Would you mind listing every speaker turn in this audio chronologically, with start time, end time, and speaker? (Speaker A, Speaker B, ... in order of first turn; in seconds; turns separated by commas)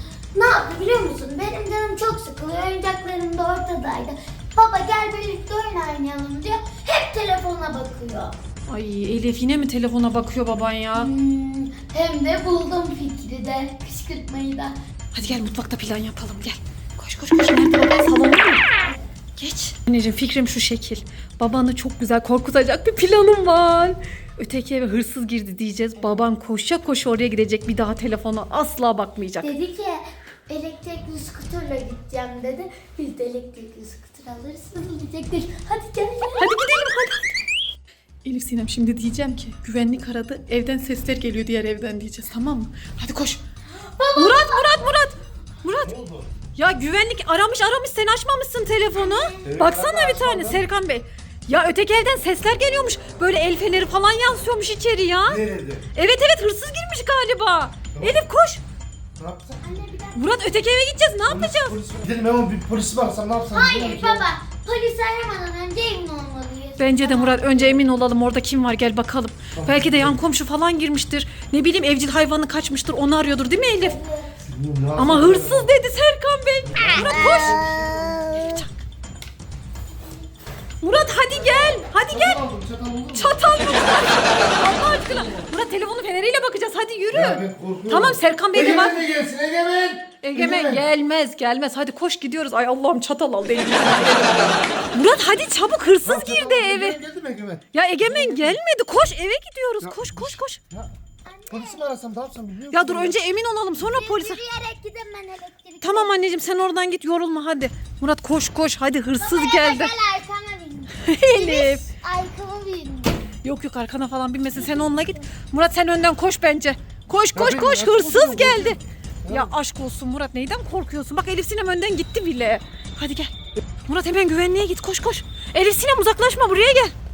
Speaker A: 0.3-8.3, Speaker B: 8.7-11.1, Speaker A: 10.9-14.7, Speaker B: 15.1-18.6, Speaker B: 19.4-29.5, Speaker A: 29.4-36.6, Speaker B: 36.4-37.3, Speaker B: 38.2-43.4, Speaker A: 43.9-44.7, Speaker B: 44.1-45.9, Speaker C: 45.8-46.3, Speaker B: 46.5-55.4, Speaker A: 49.0-49.4, Speaker C: 49.4-50.6, Speaker C: 55.3-55.8, Speaker B: 55.9-58.6, Speaker C: 59.2-59.6, Speaker A: 59.6-60.4, Speaker B: 60.1-61.8, Speaker C: 61.3-64.2, Speaker A: 63.5-67.8, Speaker B: 66.8-74.0, Speaker C: 69.5-70.2, Speaker A: 73.8-74.3, Speaker C: 74.4-75.7, Speaker B: 75.0-77.7, Speaker C: 76.6-78.3, Speaker A: 76.9-78.6, Speaker B: 78.3-78.7, Speaker B: 80.8-82.4, Speaker C: 82.1-83.7, Speaker B: 83.1-89.0, Speaker C: 87.1-90.8, Speaker B: 90.2-97.0, Speaker C: 96.0-98.5, Speaker B: 97.7-100.6, Speaker C: 99.8-100.9, Speaker A: 101.2-101.9, Speaker C: 101.5-103.2, Speaker B: 102.7-104.4, Speaker A: 103.7-106.2, Speaker B: 105.8-109.9, Speaker A: 109.2-113.2, Speaker B: 111.0-111.8, Speaker B: 113.4-123.3, Speaker C: 117.3-119.5, Speaker B: 123.9-126.9